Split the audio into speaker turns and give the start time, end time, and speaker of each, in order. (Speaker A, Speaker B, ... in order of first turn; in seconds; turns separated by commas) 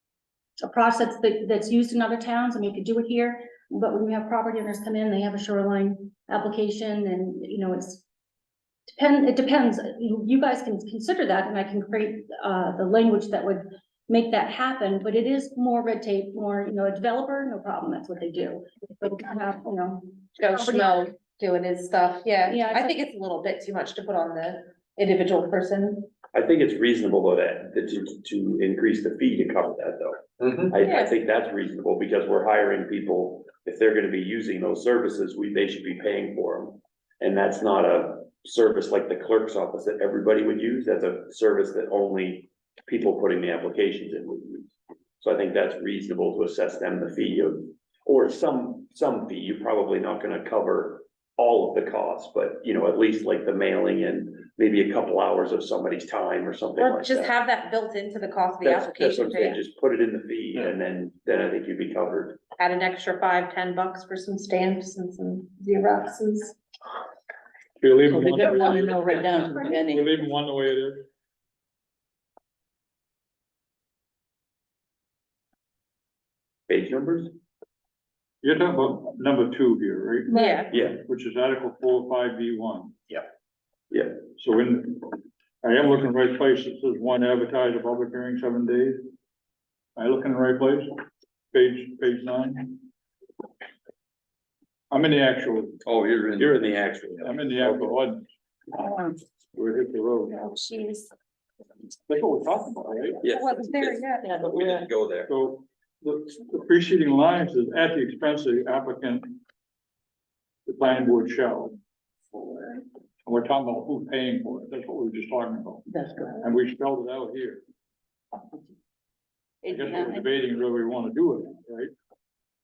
Speaker A: 0.6-8.0, Speaker A: 8.9-21.1, Speaker B: 20.4-26.1, Speaker A: 22.5-23.0, Speaker C: 26.3-57.3, Speaker B: 30.8-31.1, Speaker B: 56.8-59.6, Speaker C: 58.6-62.4, Speaker B: 62.6-66.6, Speaker D: 67.8-69.0, Speaker E: 68.1-70.2, Speaker D: 69.7-71.0, Speaker C: 76.7-77.3, Speaker D: 78.4-83.0, Speaker A: 80.3-80.7, Speaker B: 80.3-80.7, Speaker C: 80.7-81.0, Speaker C: 83.9-84.2, Speaker D: 84.4-89.0, Speaker D: 90.0-90.9, Speaker D: 91.5-92.8, Speaker D: 94.9-95.8, Speaker C: 95.8-98.0, Speaker D: 96.4-96.6, Speaker D: 97.2-98.2, Speaker E: 98.8-99.1, Speaker D: 99.5-100.4, Speaker B: 100.3-101.1, Speaker D: 102.1-103.2, Speaker C: 103.2-105.3, Speaker B: 103.2-104.3, Speaker D: 105.3-109.4, Speaker D: 110.7-111.8, Speaker B: 112.4-112.7, Speaker D: 113.2-115.8, Speaker E: 115.9-116.5, Speaker D: 116.4-117.6, Speaker E: 119.6-120.3, Speaker D: 119.7-121.9